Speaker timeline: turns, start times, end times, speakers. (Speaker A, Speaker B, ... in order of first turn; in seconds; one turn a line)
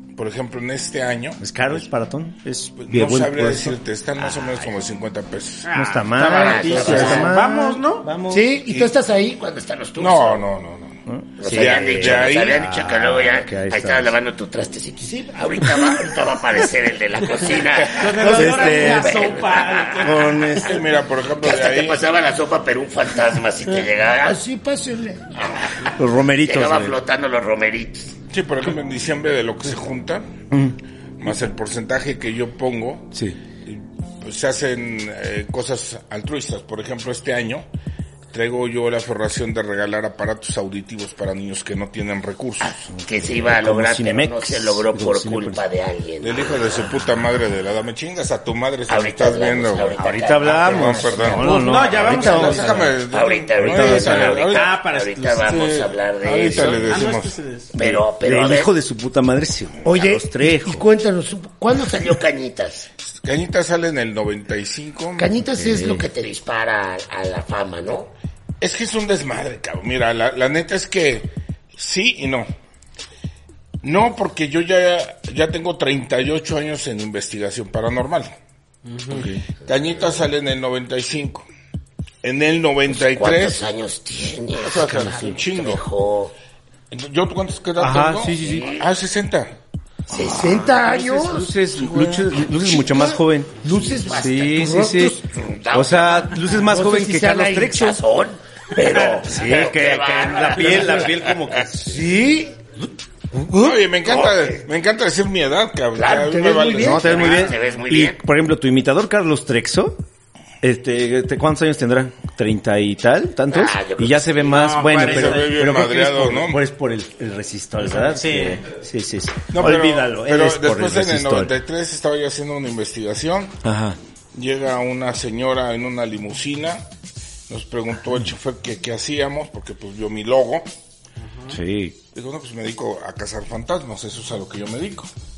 Speaker A: 0.1-1.8
Speaker B: 1.4-4.7
Speaker A: 2.8-5.7
Speaker C: 5.7-8.1
Speaker B: 5.7-8.5
Speaker D: 6.3-7.3
Speaker A: 6.8-7.3
Speaker E: 8.3-9.4
Speaker D: 9.2-10.4
Speaker A: 9.9-12.6
Speaker B: 11.1-14.1
Speaker D: 11.4-20.2
Speaker E: 15.1-15.3
Speaker C: 17.8-20.7
Speaker B: 17.9-19.3
Speaker E: 18.0-19.1
Speaker B: 19.9-20.8
Speaker A: 20.6-22.1
Speaker D: 21.4-24.4
Speaker E: 24.2-25.3
Speaker D: 25.3-28.1
Speaker B: 25.9-27.0
Speaker A: 28.3-30.2
Speaker B: 30.5-30.8
Speaker A: 31.2-33.1
Speaker B: 33.1-33.4
Speaker A: 33.6-37.6
Speaker A: 38.3-42.9
Speaker D: 42.6-46.9
Speaker B: 42.9-45.6
Speaker A: 46.2-54.7
Speaker D: 48.9-51.2
Speaker B: 50.0-53.0
Speaker C: 51.4-52.8
Speaker D: 53.1-57.0
Speaker B: 53.6-54.4
Speaker C: 54.5-57.7
Speaker A: 55.5-57.3
Speaker D: 57.7-58.7
Speaker B: 57.8-60.9
Speaker E: 59.8-62.0
Speaker D: 61.7-62.9
Speaker A: 63.0-65.3
Speaker E: 65.2-66.0
Speaker D: 65.5-68.1
Speaker B: 65.5-66.0
Speaker A: 68.6-72.5
Speaker A: 73.8-78.3
Speaker C: 78.8-79.3
Speaker B: 79.1-79.5
Speaker A: 79.6-81.5
Speaker A: 82.2-83.6
Speaker D: 83.0-86.3
Speaker A: 84.5-85.8
Speaker A: 86.9-89.5
Speaker B: 87.8-88.8
Speaker D: 88.4-88.9
Speaker D: 90.1-90.7
Speaker E: 90.2-91.5
Speaker B: 90.5-95.2
Speaker A: 91.8-92.3
Speaker E: 92.4-95.2
Speaker D: 94.0-94.5
Speaker D: 95.2-96.5
Speaker B: 95.7-98.0
Speaker E: 96.6-97.9
Speaker D: 97.7-101.1
Speaker B: 99.2-102.0
Speaker E: 100.6-101.0
Speaker E: 101.8-102.6
Speaker A: 103.5-107.4
Speaker D: 106.0-108.2
Speaker E: 106.2-107.4
Speaker B: 106.8-110.0
Speaker B: 110.6-121.6
Speaker D: 113.5-114.5
Speaker C: 114.4-115.6
Speaker A: 115.0-116.6
Speaker C: 117.8-118.6
Speaker A: 119.5-123.6
Speaker B: 123.6-124.0
Speaker A: 124.3-126.8
Speaker A: 127.5-130.7
Speaker C: 131.2-131.6
Speaker B: 131.5-132.0
Speaker A: 132.1-135.1